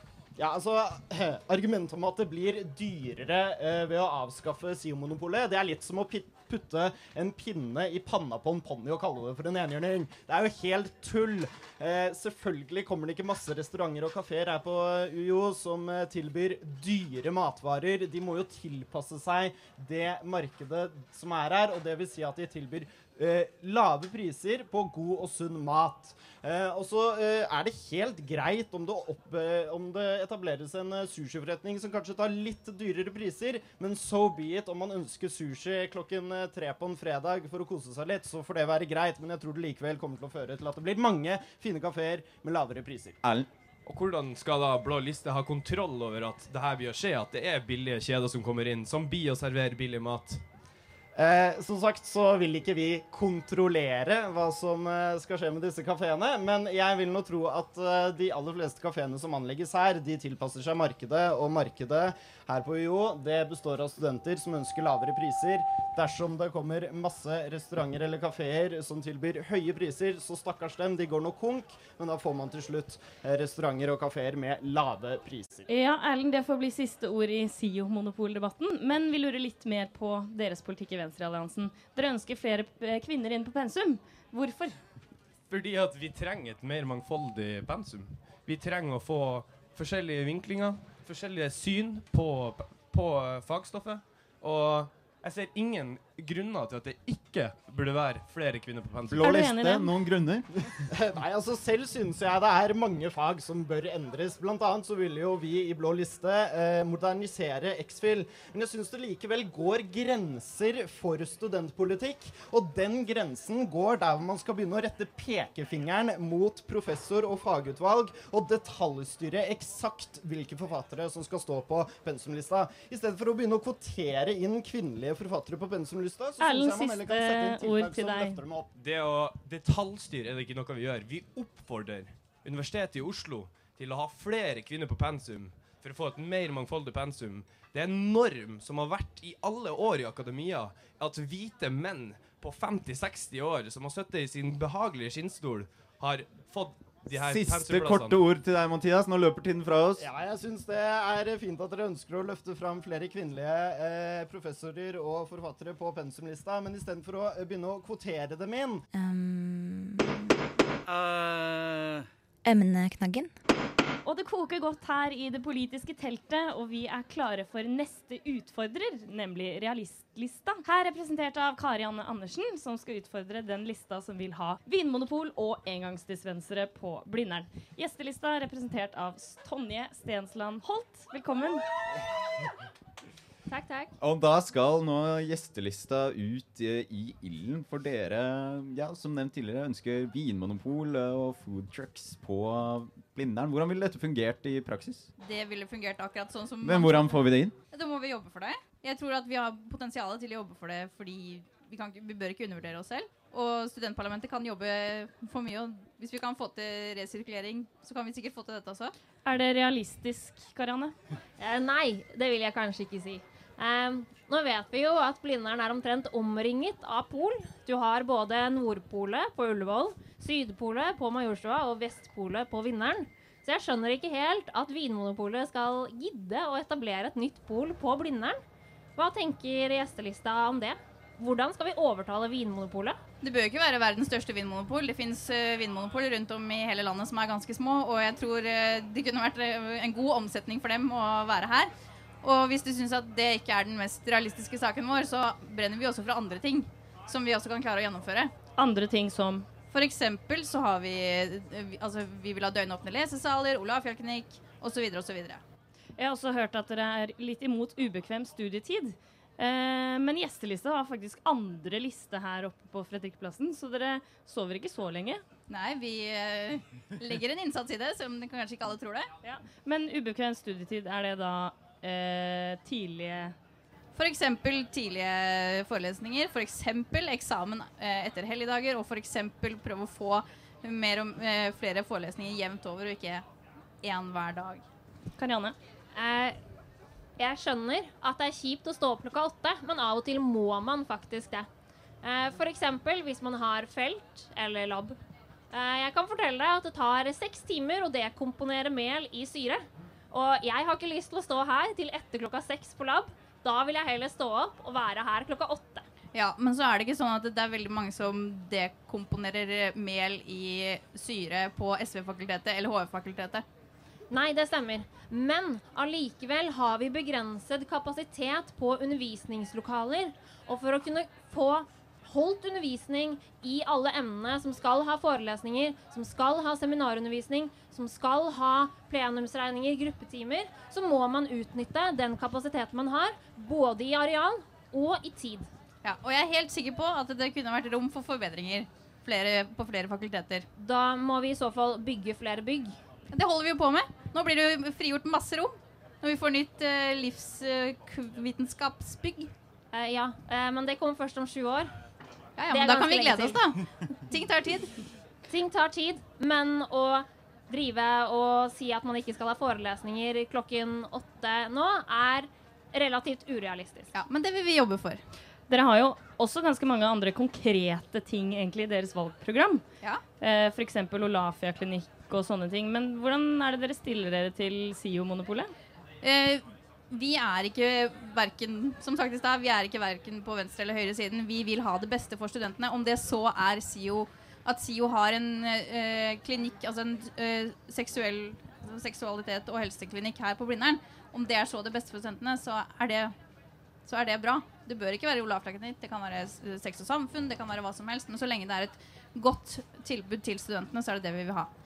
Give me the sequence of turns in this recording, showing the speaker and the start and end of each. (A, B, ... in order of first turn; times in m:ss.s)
0:00.4-0:43.2 A
0:43.2-0:43.5 B
0:43.8-0:50.4 C
0:51.1-1:15.6 A
1:15.7-1:24.8 D
1:25.5-1:39.4 C
1:39.1-1:40.7 B
1:39.1-1:39.9 D
1:40.9-2:08.7 A
2:06.4-2:08.4 D
2:08.7-2:28.2 C
2:27.1-2:30.0 B
2:30.0-2:38.8 A
2:38.9-2:40.4 E
2:42.4-2:43.3 E
2:44.0-3:01.6 D
3:03.5-3:03.9 F
3:04.0-3:15.1 B
3:15.2-3:28.9 G
3:16.6-3:17.5 B
3:29.2-3:31.0 D
3:31.4-3:48.4 F
3:49.0-3:53.0 F
3:53.2-4:01.7 G
4:02.2-4:08.3 G
4:08.6-4:09.5 D
4:09.7-4:15.4 G
4:16.0-4:25.2 D
4:25.5-4:29.1 G
4:29.2-4:33.3 D
4:33.9-4:43.2 G
4:43.8-4:44.6 G
4:45.2-4:45.6 D
4:45.9-4:46.4 F
4:47.2-4:51.5 F
4:52.0-4:55.0 F
4:55.5-5:05.8 F
5:06.1-5:13.4 G
5:14.1-5:35.5 F
5:35.8-5:40.5 G
5:40.6-5:42.8 F
5:43.1-5:49.3 G
5:49.7-5:51.7 F
5:52.4-5:54.7 G
5:52.5-5:53.4 F
5:55.3-6:03.9 F
6:03.9-6:05.0 G
6:05.5-6:09.6 D
6:10.2-6:15.5 D
6:16.0-6:33.1 G
6:33.8-6:41.5 G